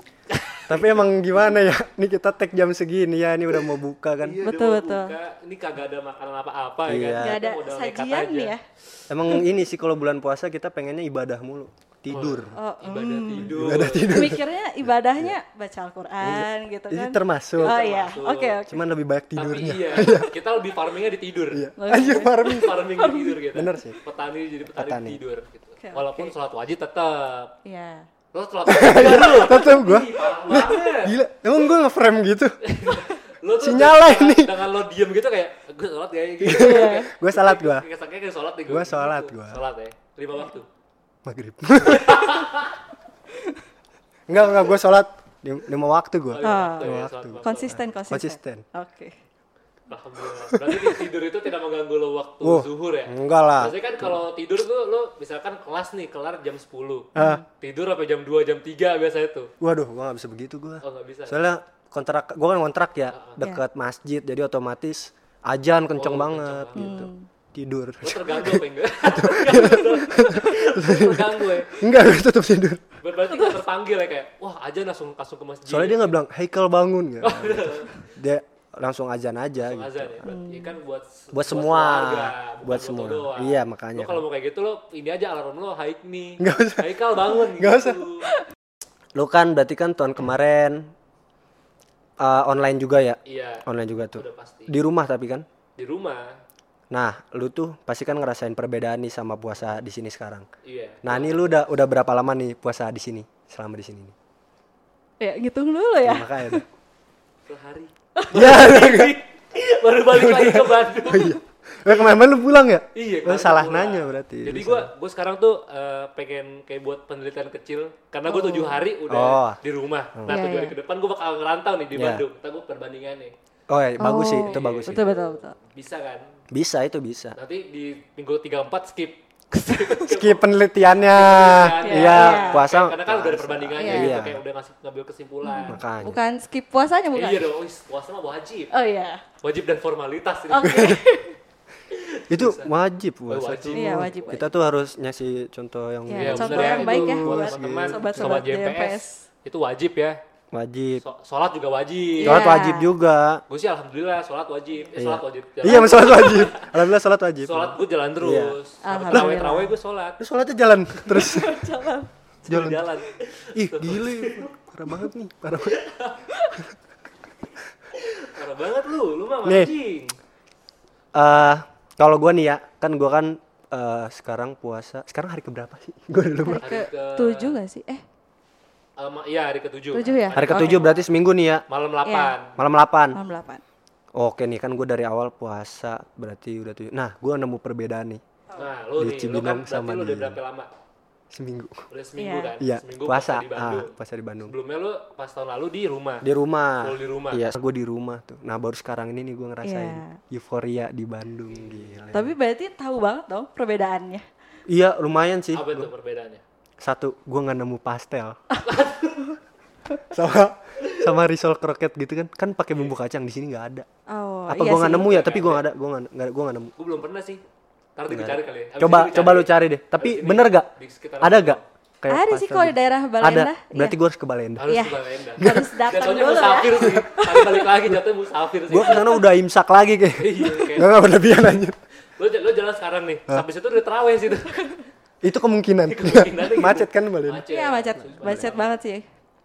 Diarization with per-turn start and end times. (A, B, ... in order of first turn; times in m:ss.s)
0:00.3-0:01.0 A
0:00.7-0:04.4 B
0:04.2-0:08.6 A
0:04.4-0:05.1 C
0:06.9-0:07.4 B
0:07.2-0:08.6 C
0:09.1-0:12.6 B
0:12.1-0:14.3 A
0:12.5-0:18.8 C
0:13.3-0:14.4 B
0:16.2-0:17.8 B
0:17.6-0:18.6 A
0:18.7-0:20.3 B
0:19.3-0:21.7 A
0:21.5-0:22.8 B
0:21.8-0:23.4 C
0:22.4-0:27.5 A
0:23.5-0:24.0 B
0:24.7-0:25.2 B
0:25.8-0:26.3 C
0:27.6-0:28.1 C
0:28.3-0:31.2 A
0:28.6-0:33.0 B
0:32.6-0:40.7 A
0:33.6-0:34.6 B
0:36.4-0:37.8 B
0:36.5-0:37.1 C
0:38.7-0:39.6 B
0:41.2-0:42.5 B
0:41.8-0:42.8 A
0:44.3-0:48.6 B
0:46.3-0:47.8 A
0:46.4-0:49.1 C
0:49.9-0:59.5 A
0:50.5-0:50.9 B
0:52.4-0:54.2 B
0:57.2-0:57.4 B
0:57.2-0:57.4 C
0:59.6-1:12.8 B
1:00.8-1:01.4 A
1:03.1-1:03.4 A
1:05.9-1:07.1 A
1:06.8-1:07.3 C
1:08.0-1:11.8 A
1:13.0-1:16.2 A
1:13.3-1:13.6 C
1:15.7-1:20.3 B
1:17.2-1:18.1 A
1:19.6-1:28.3 A
1:20.2-1:20.8 C
1:21.3-1:24.2 B
1:26.4-1:28.0 B
1:29.1-1:30.9 B
1:32.2-1:35.4 B
1:33.2-1:34.7 A
1:35.8-1:36.4 A
1:36.9-1:40.5 B
1:40.6-1:41.5 A
1:41.0-1:44.1 B
1:45.2-1:46.6 C
1:46.0-1:46.6 B
1:47.5-1:51.4 A
1:48.2-1:48.6 C
1:48.3-1:49.2 B
1:50.1-1:54.9 B
1:52.9-2:03.3 A
1:58.3-1:58.8 C
1:59.1-1:59.6 B
2:00.1-2:00.4 B
2:00.3-2:00.7 C
2:01.9-2:02.2 B
2:03.7-2:05.0 B
2:04.0-2:05.6 C
2:04.4-2:06.3 A
2:06.5-2:07.4 B
2:07.3-2:10.4 A
2:10.0-2:14.4 B
2:11.1-2:15.8 A
2:11.8-2:12.6 C
2:13.8-2:14.2 C
2:15.4-2:17.5 C
2:15.6-2:16.2 B
2:17.1-2:18.7 A
2:18.7-2:19.2 C
2:19.4-2:21.0 A
2:20.5-2:21.4 C
2:20.6-2:21.0 B
2:21.9-2:22.7 A
2:22.3-2:28.5 B
2:23.3-2:24.4 A
2:23.7-2:24.5 C
2:26.1-2:29.2 C
2:26.1-2:30.2 A
2:30.5-2:31.0 B
2:31.0-2:32.5 A
2:32.2-2:32.9 C
2:32.2-2:33.4 B
2:33.5-2:36.8 A
2:35.0-2:38.6 B
2:35.6-2:36.5 C
2:37.4-2:40.2 A
2:38.8-2:39.8 C
2:39.1-2:39.5 B
2:40.2-2:41.7 B
2:40.9-2:41.2 A
2:41.1-2:42.1 C
2:42.4-2:44.5 A
2:42.5-2:42.9 B
2:43.5-2:45.8 B
2:45.6-2:46.2 A
2:46.3-2:46.6 C
2:47.9-2:50.2 A
2:49.4-2:49.7 B
2:51.1-2:56.7 B
2:56.4-2:58.0 C
2:56.6-2:57.6 A
2:59.0-3:00.9 A
2:59.9-3:01.0 C
3:00.3-3:01.6 B
3:01.7-3:02.5 A
3:02.0-3:02.3 C
3:02.6-3:03.2 B
3:03.1-3:03.6 C
3:04.1-3:08.2 B
3:08.6-3:10.7 A
3:09.0-3:10.4 B
3:11.3-3:11.9 B
3:11.9-3:16.3 A
3:12.2-3:12.6 C
3:12.6-3:14.5 B
3:16.2-3:22.3 B
3:16.8-3:17.5 A
3:19.6-3:20.2 C
3:21.5-3:22.2 A
3:22.1-3:24.2 C
3:24.7-3:25.9 B
3:25.5-3:26.4 A
3:26.8-3:28.4 B
3:28.6-3:29.4 A
3:30.0-3:33.9 B
3:30.8-3:31.1 A
3:34.1-3:35.1 C
3:34.5-3:36.7 B
3:34.9-3:35.6 A
3:36.8-3:37.4 A
3:38.0-3:41.6 A
3:38.1-3:40.7 B
3:41.2-3:44.8 B
3:42.1-3:44.0 C
3:44.6-3:49.2 A
3:44.7-3:47.7 C
3:45.4-3:45.8 B
3:48.7-3:51.8 B
3:50.2-3:50.9 A
3:52.2-3:54.7 A
3:55.2-3:57.4 B
3:55.9-3:58.8 A
3:57.5-3:59.0 C
3:58.1-3:58.5 B